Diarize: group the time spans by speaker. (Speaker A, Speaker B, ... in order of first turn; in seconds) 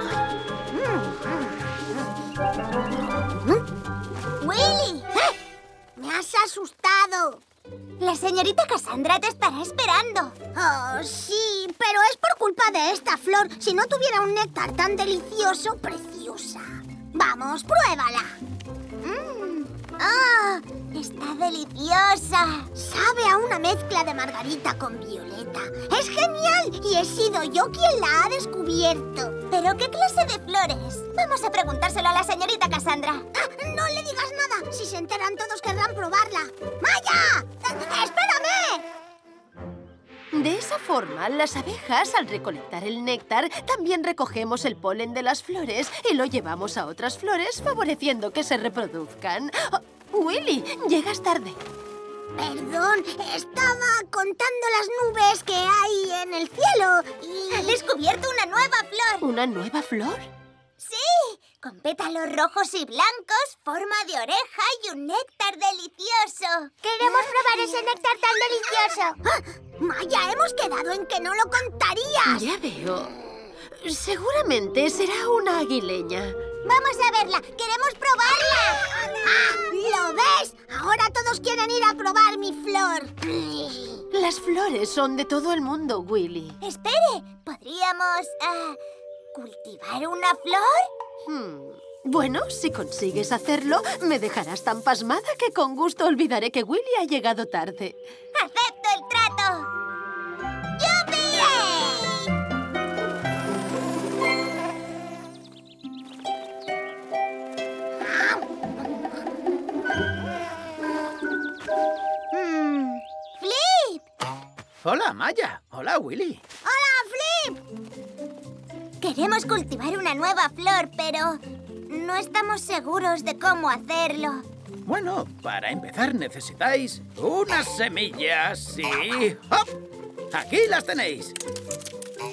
Speaker A: 0.7-1.5, 6.0-7.4, 10.6-18.3, 22.8-29.4, 33.4-38.8, 52.4-57.8, 66.8-72.5, 78.3-84.0, 108.1-108.4, 116.7-117.6
Speaker B: 4.4-5.1, 8.0-10.3, 19.0-22.7, 29.5-33.2, 57.5-59.3, 60.8-68.0, 76.7-78.7, 86.6-88.8, 89.3-90.9, 98.4-99.7, 100.8-102.3, 112.3-114.0, 119.0-124.4
Speaker C: 40.3-51.6, 59.2-60.3, 72.3-73.1, 73.7-76.4, 84.1-86.6, 91.3-98.0
Speaker D: 114.8-116.4, 124.8-129.7, 130.3-131.4